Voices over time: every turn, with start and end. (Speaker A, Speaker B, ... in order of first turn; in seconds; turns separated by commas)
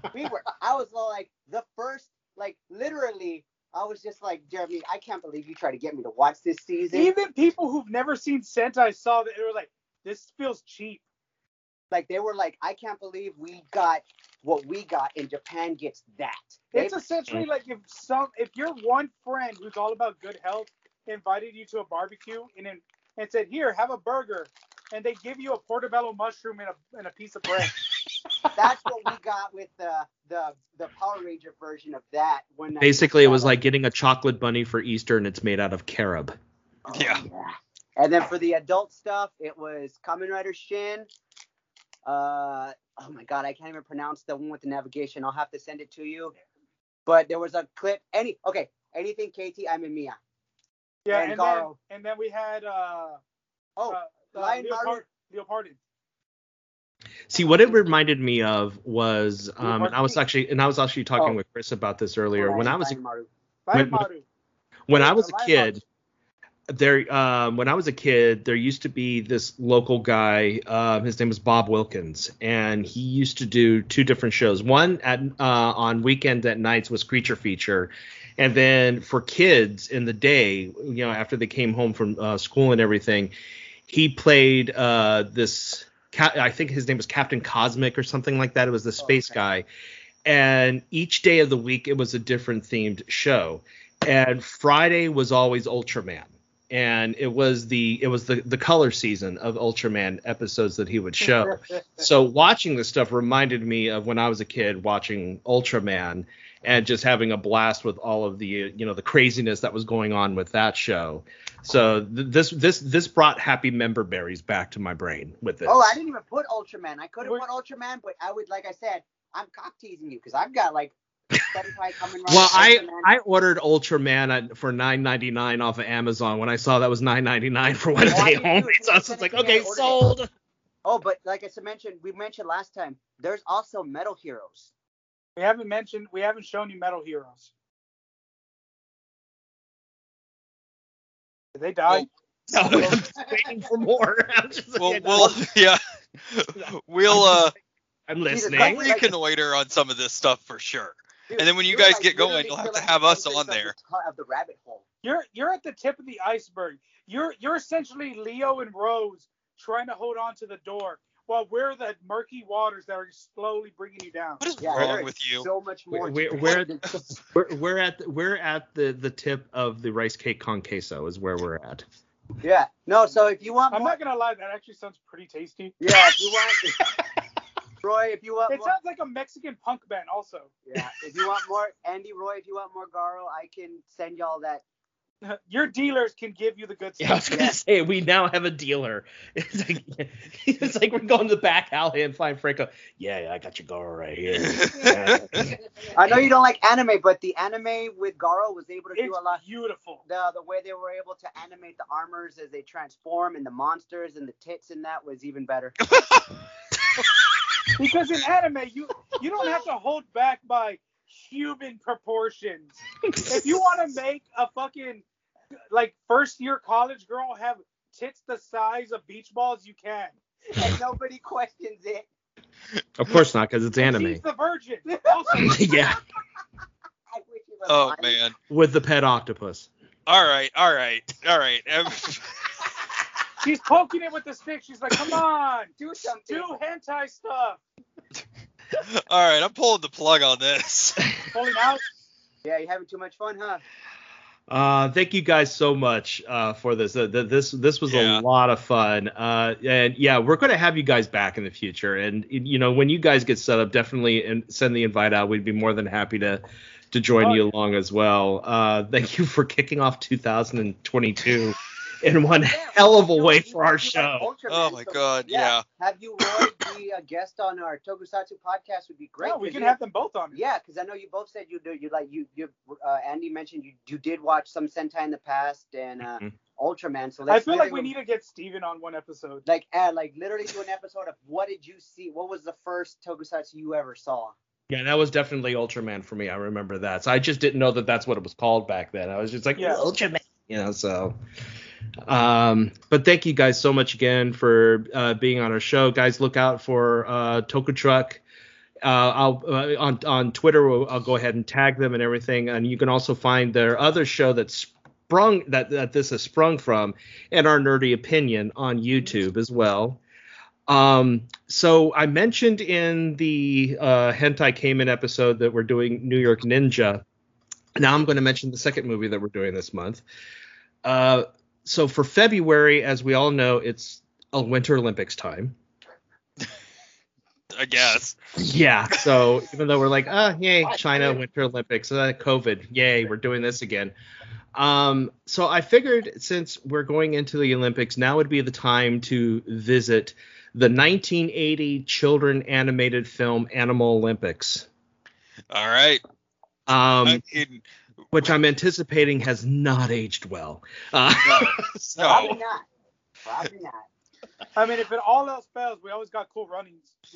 Speaker A: 0.1-7.1, Speaker B: 6.9-11.0, Speaker A: 11.9-17.0, Speaker B: 16.7-27.8, Speaker A: 28.6-33.5, Speaker C: 32.8-36.4, Speaker A: 36.9-41.1, Speaker D: 36.9-37.2, Speaker A: 42.0-46.3, Speaker A: 47.1-50.2, Speaker B: 51.0-53.2, Speaker A: 51.1-51.7, Speaker A: 53.8-55.0, Speaker B: 53.9-55.8, Speaker C: 57.3-63.0, Speaker A: 57.3-57.8, Speaker A: 59.6-60.0, Speaker B: 59.8-60.0, Speaker A: 62.4-63.3, Speaker B: 63.7-64.2, Speaker C: 63.7-64.1, Speaker C: 64.9-65.8, Speaker A: 64.9-65.8, Speaker C: 66.7-83.3, Speaker C: 83.9-89.7, Speaker A: 89.0-89.5, Speaker C: 90.3-115.8, Speaker A: 115.7-121.0, Speaker A: 121.5-123.1, Speaker C: 122.3-130.3, Speaker A: 128.0-130.1, Speaker A: 130.8-134.7, Speaker B: 135.4-137.5, Speaker B: 141.6-142.1, Speaker D: 141.9-142.9, Speaker C: 142.5-145.4, Speaker A: 142.7-143.6, Speaker D: 144.8-147.5, Speaker A: 145.1-145.4, Speaker C: 147.1-147.5, Speaker C: 148.1-148.9, Speaker A: 148.3-149.2, Speaker D: 148.5-153.7, Speaker A: 151.3-154.8, Speaker B: 155.0-164.4, Speaker D: 164.4-165.5, Speaker A: 164.6-167.0, Speaker C: 165.9-171.8, Speaker A: 172.4-174.0, Speaker B: 173.7-175.8, Speaker A: 175.8-176.8, Speaker A: 177.8-178.7, Speaker B: 178.5-180.5, Speaker A: 180.7-184.6, Speaker B: 185.2-187.3, Speaker C: 187.0-195.6, Speaker A: 187.3-187.6, Speaker D: 194.3-195.0, Speaker A: 195.8-199.4, Speaker B: 199.0-200.0, Speaker A: 200.0-205.7, Speaker D: 205.8-206.3, Speaker B: 207.8-215.0, Speaker C: 213.1-213.4, Speaker B: 215.7-220.1, Speaker A: 220.6-222.1, Speaker C: 223.0-224.2, Speaker B: 223.8-225.6, Speaker A: 224.8-225.6, Speaker C: 225.4-226.0, Speaker A: 227.1-228.2, Speaker D: 227.7-228.3, Speaker C: 228.5-229.7, Speaker D: 230.1-232.2, Speaker B: 233.4-235.7, Speaker A: 235.8-236.5, Speaker B: 236.3-237.6, Speaker D: 238.8-241.0, Speaker B: 241.3-241.8, Speaker A: 242.4-243.6, Speaker C: 244.5-264.3, Speaker D: 247.9-248.2, Speaker B: 257.2-257.5, Speaker A: 262.3-269.8, Speaker D: 264.5-265.6, Speaker B: 269.2-270.4, Speaker A: 270.3-277.9, Speaker B: 277.3-279.4, Speaker A: 279.4-284.4, Speaker C: 284.7-291.2, Speaker B: 289.6-289.9, Speaker C: 292.1-298.2, Speaker C: 298.8-310.0, Speaker C: 310.7-317.0, Speaker C: 317.8-320.0, Speaker C: 320.8-325.6, Speaker D: 327.6-328.2, Speaker C: 327.9-333.9, Speaker C: 334.6-344.7, Speaker D: 345.5-346.0, Speaker C: 346.7-347.2, Speaker D: 347.0-347.6, Speaker C: 348.1-352.4, Speaker A: 351.2-352.7, Speaker D: 352.0-352.4, Speaker A: 353.2-353.9, Speaker B: 354.6-356.9